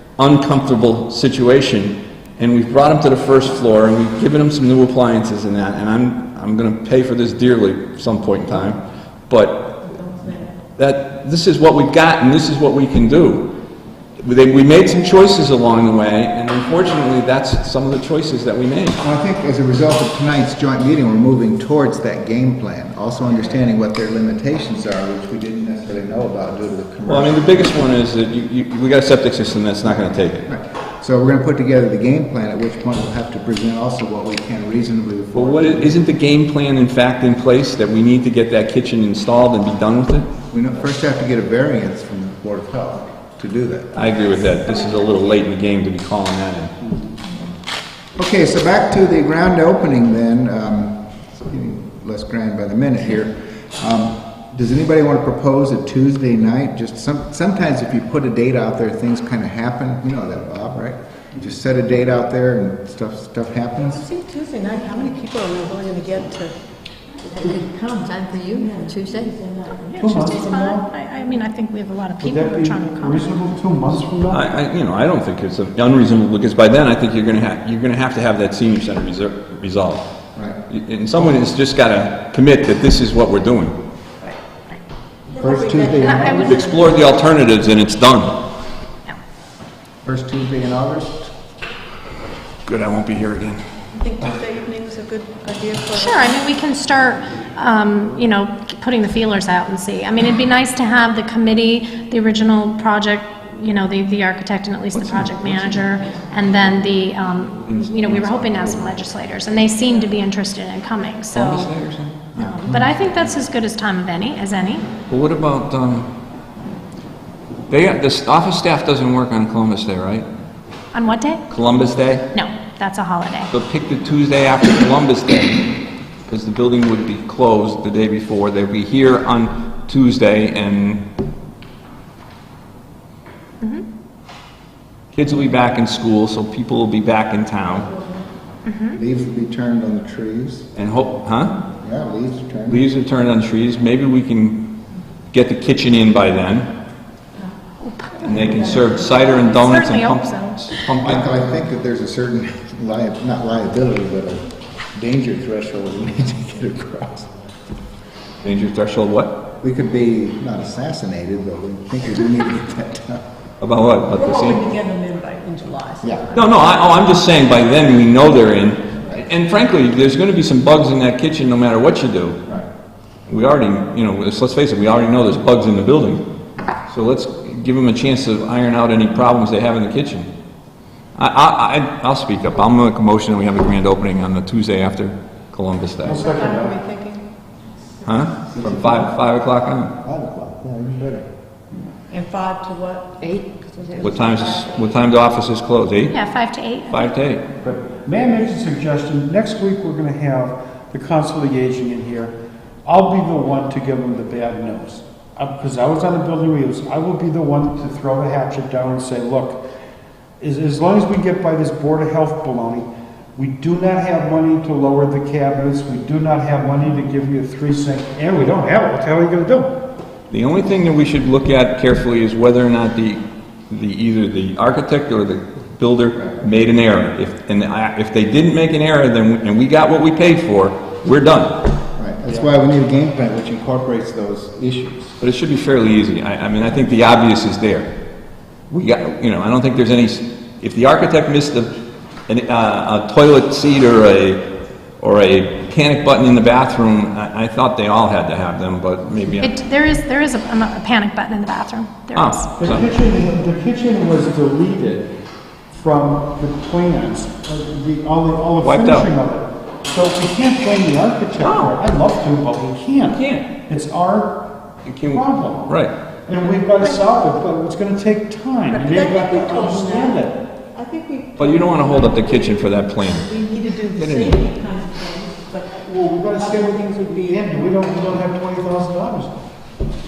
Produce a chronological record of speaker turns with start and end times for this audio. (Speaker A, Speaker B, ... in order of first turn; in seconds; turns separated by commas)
Speaker A: 0.2-9.9, Speaker B: 10.1-10.4, Speaker A: 10.8-13.5, Speaker A: 14.2-19.0, Speaker C: 19.0-27.6, Speaker A: 27.1-30.5, Speaker C: 30.5-36.0, Speaker A: 35.3-40.3, Speaker C: 40.5-44.0, Speaker A: 43.9-46.7, Speaker C: 48.2-64.0, Speaker B: 63.9-66.5, Speaker D: 67.3-69.4, Speaker B: 68.5-69.8, Speaker E: 69.8-73.4, Speaker F: 70.0-70.9, Speaker F: 72.2-74.5, Speaker A: 74.3-80.1, Speaker C: 80.3-80.6, Speaker A: 80.7-83.8, Speaker B: 85.3-87.2, Speaker C: 85.4-86.6, Speaker E: 86.0-86.6, Speaker A: 86.4-88.5, Speaker C: 90.0-91.3, Speaker A: 92.7-93.6, Speaker B: 93.9-96.4, Speaker E: 96.0-111.8, Speaker A: 104.9-106.2, Speaker A: 107.7-109.1, Speaker A: 111.3-113.2, Speaker E: 112.4-114.9, Speaker A: 115.1-116.1, Speaker A: 117.7-120.3, Speaker E: 120.9-121.5, Speaker A: 121.5-122.2, Speaker E: 122.3-123.5, Speaker A: 123.5-125.7, Speaker A: 126.3-131.0, Speaker A: 135.1-137.9, Speaker E: 138.7-139.0, Speaker C: 138.9-140.7, Speaker A: 140.8-141.5, Speaker C: 141.8-142.9, Speaker A: 142.7-144.7, Speaker A: 145.3-146.7, Speaker E: 147.8-148.3, Speaker A: 148.2-151.3, Speaker E: 149.3-150.7, Speaker C: 151.0-157.3, Speaker A: 158.4-159.4, Speaker C: 159.6-163.2, Speaker A: 163.6-164.6, Speaker B: 164.1-166.2, Speaker C: 166.0-166.5, Speaker A: 166.3-172.4, Speaker A: 173.3-176.2, Speaker A: 176.9-180.3, Speaker A: 181.2-186.2, Speaker F: 186.0-186.8, Speaker B: 186.1-187.2, Speaker A: 188.0-189.9, Speaker C: 188.6-188.9, Speaker C: 190.0-191.3, Speaker B: 192.1-193.3, Speaker D: 193.2-194.4, Speaker B: 194.0-194.9, Speaker A: 194.0-196.2, Speaker E: 196.1-197.1, Speaker A: 196.9-197.4, Speaker F: 197.6-202.3, Speaker F: 202.8-209.6, Speaker F: 210.4-219.8, Speaker A: 220.3-231.6, Speaker C: 232.0-235.1, Speaker A: 235.2-237.9, Speaker A: 238.7-244.5, Speaker A: 245.0-249.5, Speaker E: 249.4-252.6, Speaker A: 252.1-252.9, Speaker F: 252.6-255.1, Speaker F: 255.7-264.5, Speaker A: 258.6-259.1, Speaker A: 261.4-261.8, Speaker A: 263.1-263.5, Speaker A: 264.9-265.9, Speaker F: 265.1-270.4, Speaker B: 268.7-277.6, Speaker A: 271.4-273.3, Speaker A: 273.9-274.4, Speaker F: 275.8-279.4